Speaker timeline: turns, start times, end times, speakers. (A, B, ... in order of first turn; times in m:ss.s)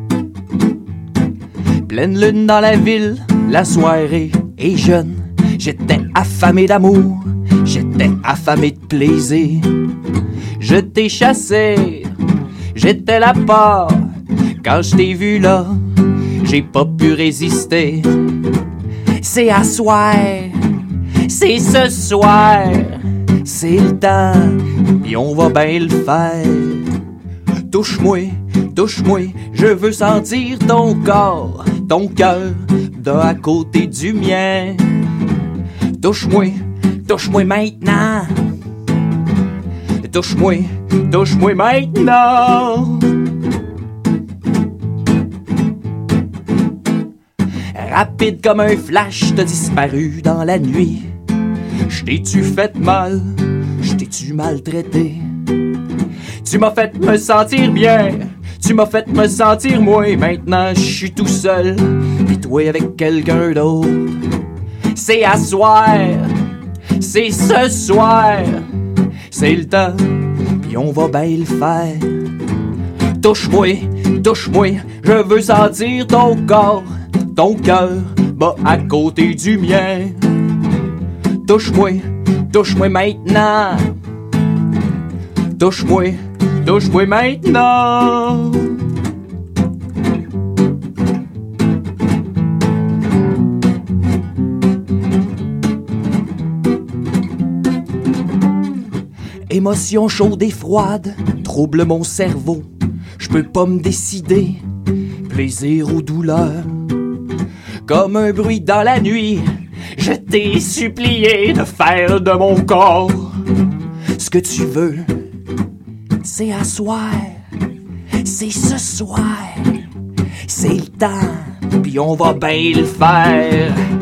0:01.8-0:09.8 A
0:10.6-0:12.1 A
0:12.7-0:14.1 A
0:14.6-0:15.8 A
0:16.4-0:18.1 A
0:19.2-0:20.6 A
0:21.2-0:26.9 A
0:27.7-0:35.0 A
0:36.0-0:38.3 A
0:40.0-0:43.2 A
0:47.7-0:51.1 A
0:51.9-0:55.2 A
0:56.4-1:04.2 A
1:04.9-1:06.3 A
1:07.0-1:08.6 A
1:09.3-1:12.3 A
1:13.2-1:20.3 A
1:21.4-1:23.9 A
1:25.6-1:28.8 A
1:39.5-1:42.7 A
1:43.2-1:44.6 A
1:45.2-1:46.8 A
1:47.8-1:53.4 A
1:54.1-1:55.2 A
1:56.2-1:57.4 A
1:58.2-1:59.8 A
2:00.5-2:03.8 A